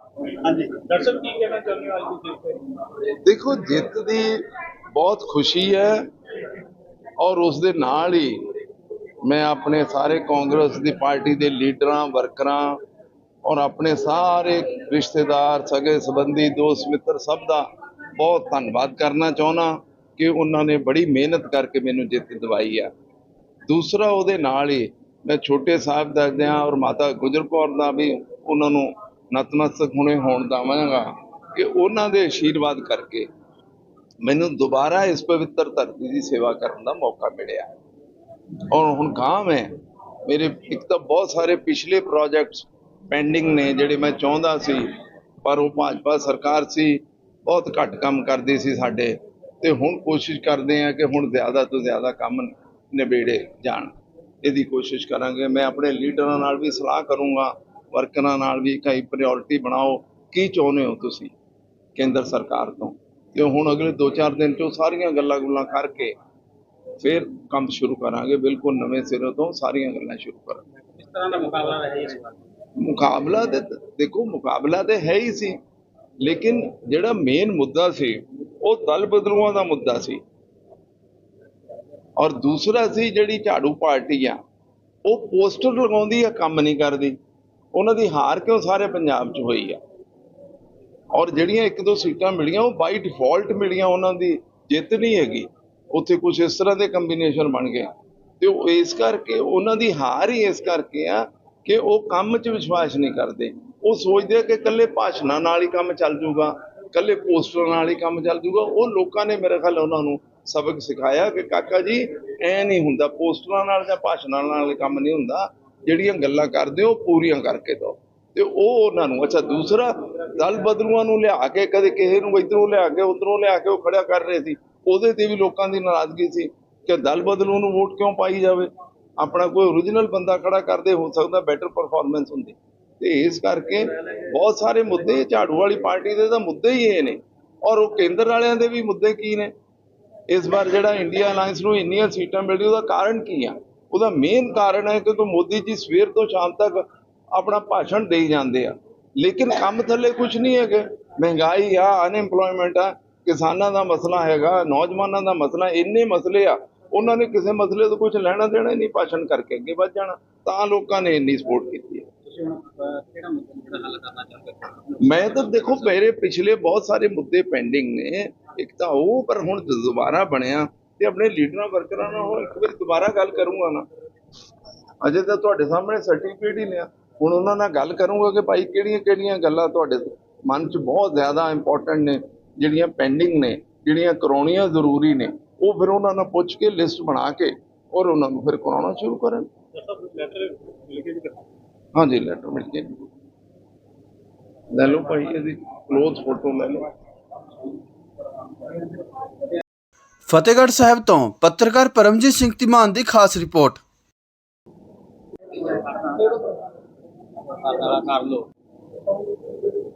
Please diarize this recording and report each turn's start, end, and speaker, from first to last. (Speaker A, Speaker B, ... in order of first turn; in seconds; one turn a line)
Speaker A: 0.4-2.6
Speaker B: 3.2-4.4
Speaker B: 5.0-6.0
Speaker B: 7.2-8.4
Speaker B: 9.2-12.8
Speaker B: 13.4-17.7
Speaker B: 18.2-22.9
Speaker B: 23.7-33.3
Speaker B: 34.2-37.7
Speaker B: 38.7-39.7
Speaker B: 40.3-44.9
Speaker B: 45.5-61.3
Speaker B: 62.0-66.1
Speaker B: 67.0-70.6
Speaker A: 70.9-72.4
Speaker B: 72.8-75.6
Speaker B: 76.2-80.2
Speaker B: 82.2-84.4
Speaker B: 85.1-87.2
Speaker B: 87.7-89.8
Speaker B: 91.1-139.5
Speaker B: 140.3-162.1
Speaker A: 162.3-165.7
Speaker B: 165.0-173.9
Speaker B: 175.0-189.5
Speaker A: 189.8-191.4
Speaker B: 191.9-192.9
Speaker B: 194.7-196.9
Speaker C: 200.2-203.8
Speaker A: 205.6-206.6
Speaker A: 207.4-208.5